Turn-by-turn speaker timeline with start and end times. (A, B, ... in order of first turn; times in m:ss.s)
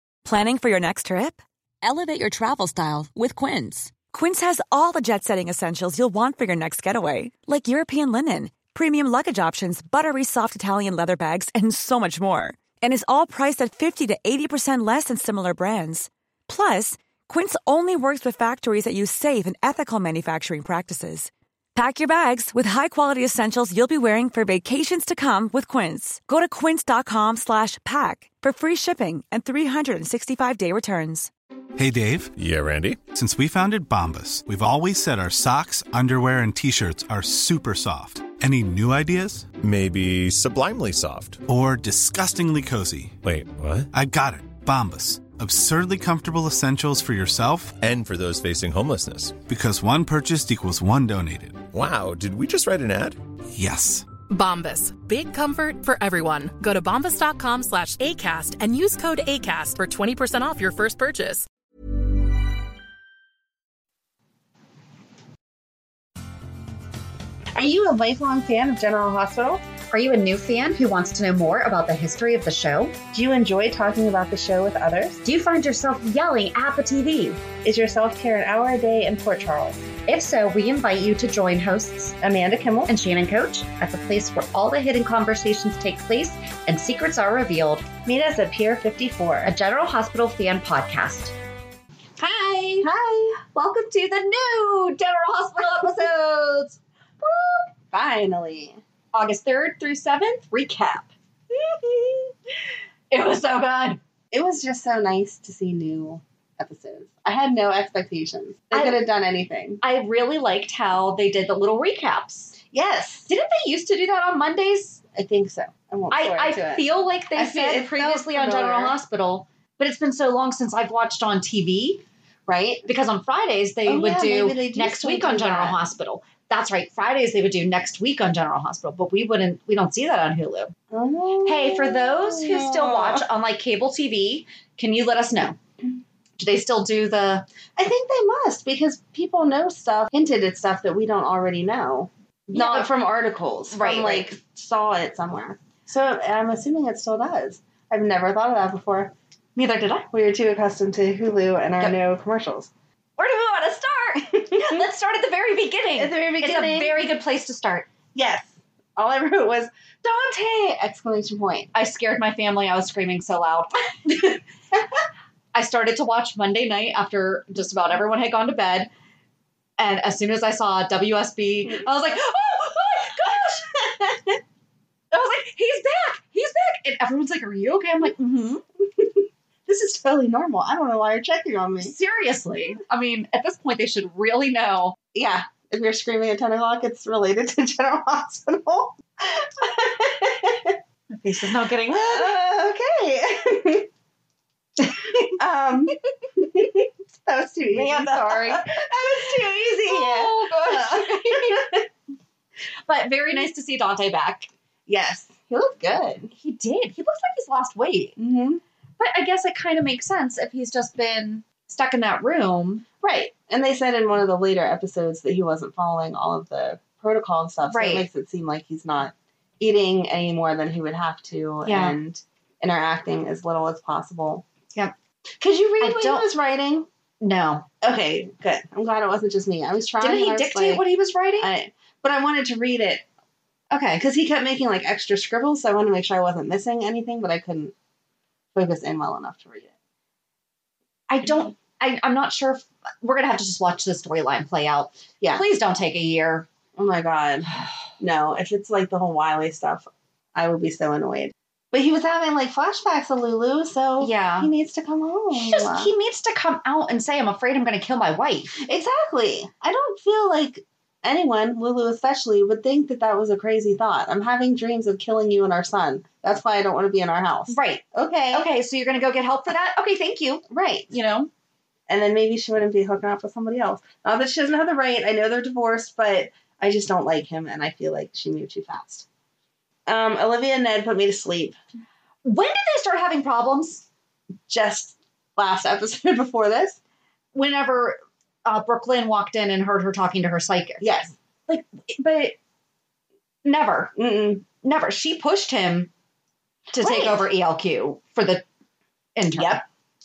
0:00.2-0:31.3 A
0:31.8-0:32.3 B
0:32.4-0:33.0 C
0:33.1-0:39.5 B
0:39.6-0:41.4 C
0:41.5-0:43.2 B
0:43.2-0:43.9 C
0:43.9-0:47.8 B
0:47.8-0:49.4 C
0:49.4-0:51.6 B
0:51.7-0:53.2 C
0:53.5-0:54.1 B
0:54.3-1:01.5 D
1:07.5-1:09.6 E
1:09.9-1:13.0 F
1:13.1-1:15.2 E
1:15.2-1:17.4 F
1:17.6-1:19.9 E
1:20.0-1:22.2 F
1:22.2-1:22.9 E
1:22.9-1:27.9 F
1:28.0-1:29.5 E
1:29.4-1:31.3 F
1:32.2-1:32.9 F
1:32.8-1:33.5 E
1:33.5-1:37.6 F
1:37.9-1:38.8 E
1:39.1-1:41.1 F
1:43.1-1:44.0 F
1:44.3-1:49.8 E
1:48.7-1:49.0 F
1:49.8-1:52.6 F
1:52.6-1:53.3 E
1:53.3-1:55.0 F
1:55.1-1:59.0 E
1:56.1-2:02.0 F
2:02.5-2:02.8 E
2:02.8-2:10.7 F
2:03.8-2:05.8 E
2:10.9-2:13.2 E
2:11.4-2:15.6 F
2:16.4-2:17.5 F
2:17.8-2:29.1 E
2:22.5-2:22.9 F
2:23.7-2:24.3 F
2:29.6-2:30.1 F
2:30.1-2:32.7 E
2:33.2-2:37.9 F
2:34.5-2:34.8 E
2:36.0-2:37.1 E
2:38.1-2:41.7 E
2:41.7-2:44.4 F
2:45.5-2:48.9 F
2:49.8-2:53.7 F
2:53.7-2:54.3 E
2:55.1-2:58.6 F
2:59.0-3:01.9 E
3:01.8-3:05.0 F
3:05.1-3:10.8 E
3:11.1-3:12.4 F
3:11.9-3:13.9 E
3:15.3-3:21.9 E
3:17.7-3:18.8 F
3:19.6-3:21.7 F
3:22.9-3:24.5 F
3:24.9-3:26.3 E
3:26.3-3:28.2 F
3:28.2-3:28.6 E
3:29.0-3:32.8 F
3:33.0-3:44.4 E
3:37.7-3:38.0 F
3:41.6-3:42.0 F
3:45.4-3:46.9 E
3:45.8-3:46.3 F
3:47.2-3:47.6 F
3:47.8-3:50.8 E
3:50.0-3:51.5 F
3:51.4-3:53.0 E
3:53.7-3:54.0 F
3:54.0-3:57.7 E
3:58.5-3:59.7 E
4:01.1-4:06.5 F
4:06.8-4:15.9 E
4:14.0-4:14.5 F
4:15.3-4:18.6 F
4:18.6-4:28.5 E
4:27.5-4:31.3 F
4:30.5-4:30.9 E
4:31.9-4:39.0 E
4:39.9-4:41.6 E
4:42.2-4:43.8 F
4:44.5-4:46.8 E
4:47.3-4:50.8 F
4:50.8-4:51.1 E
4:51.5-4:52.4 F
4:53.4-4:53.9 F
4:54.0-4:54.4 E
4:54.5-4:55.9 F
4:56.7-4:58.4 F
4:56.8-4:57.3 E
4:59.2-4:59.6 F
4:59.3-4:59.6 E